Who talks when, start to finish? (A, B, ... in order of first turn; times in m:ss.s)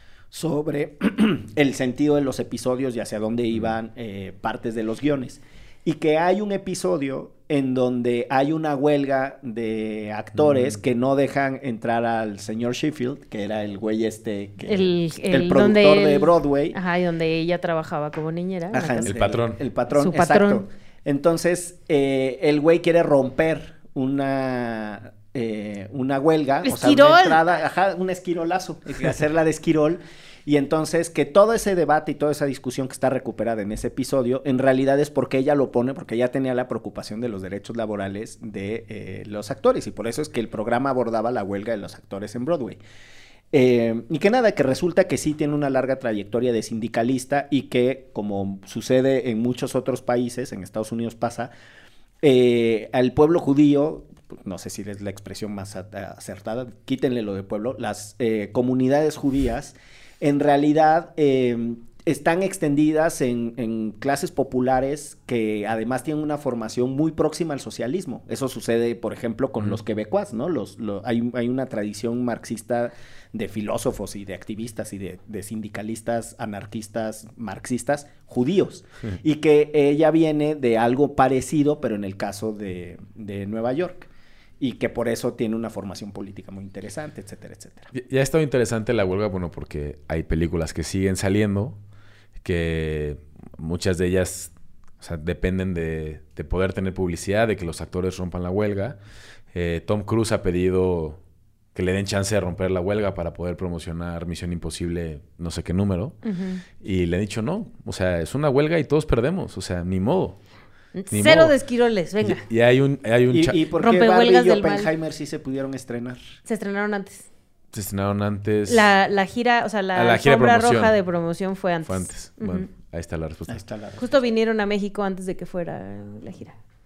0:00.3-0:16.8 A
0:14.7-0:19.2 B
0:18.7-0:42.8 A
0:19.1-0:19.6 C
0:19.9-0:20.6 B
0:26.6-0:27.4 B
0:43.5-0:51.5 A
0:52.2-1:24.1 A
1:24.6-1:27.9 A
1:27.9-1:31.8 C
1:32.4-1:39.0 C
1:39.5-1:41.2 C
1:41.8-1:46.2 C
1:46.2-1:46.6 B
1:46.8-1:50.4 C
1:51.0-1:52.4 B
1:51.1-1:51.5 C
1:52.2-1:53.6 C
1:53.3-1:56.2 A
1:53.8-1:54.9 B
1:56.5-1:57.3 B
1:57.7-1:58.9 C
1:58.7-2:02.7 B
1:59.9-2:01.0 C
2:01.9-2:03.7 C
2:03.5-2:04.0 A
2:04.0-2:06.6 B